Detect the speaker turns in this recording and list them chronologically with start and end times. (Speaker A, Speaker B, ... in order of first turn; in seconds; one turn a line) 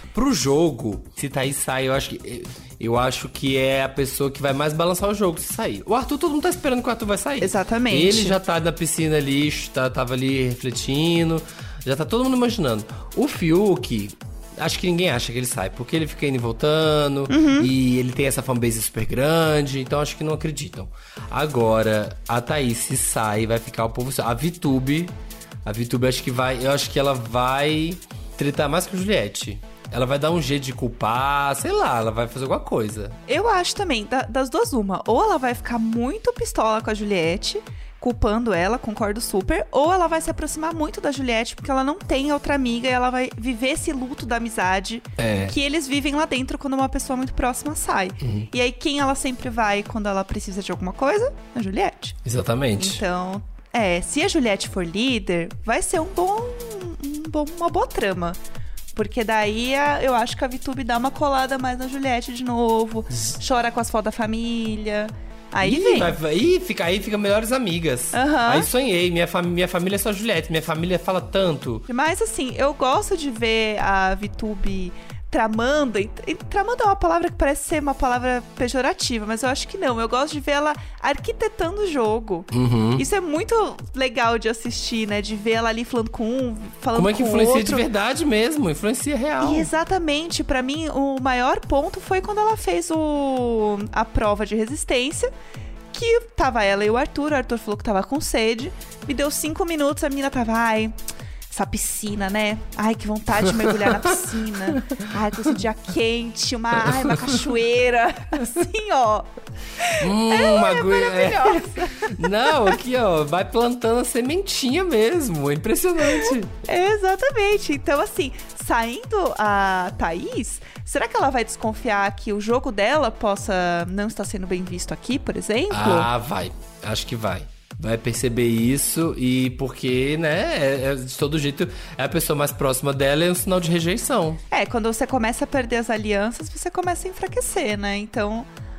Speaker A: 0.1-25.1
Speaker B: 7.4-8.4
Speaker B: 17.3-17.7
Speaker A: 25.6-33.2
Speaker B: 33.3-52.2
Speaker A: 45.2-45.5
Speaker A: 48.2-48.5
Speaker A: 52.2-53.0
Speaker B: 52.8-58.4
Speaker B: 58.9-66.2
Speaker A: 65.6-71.8
Speaker B: 68.1-68.7
Speaker B: 71.9-87.8
Speaker A: 82.5-83.0
Speaker A: 86.9-89.7
Speaker B: 89.4-95.3
Speaker B: 95.9-100.9
Speaker B: 101.5-109.3
Speaker A: 103.6-103.9
Speaker B: 109.8-112.8
Speaker A: 110.0-116.5
Speaker B: 116.1-126.1
Speaker A: 125.7-134.4
Speaker B: 134.5-138.5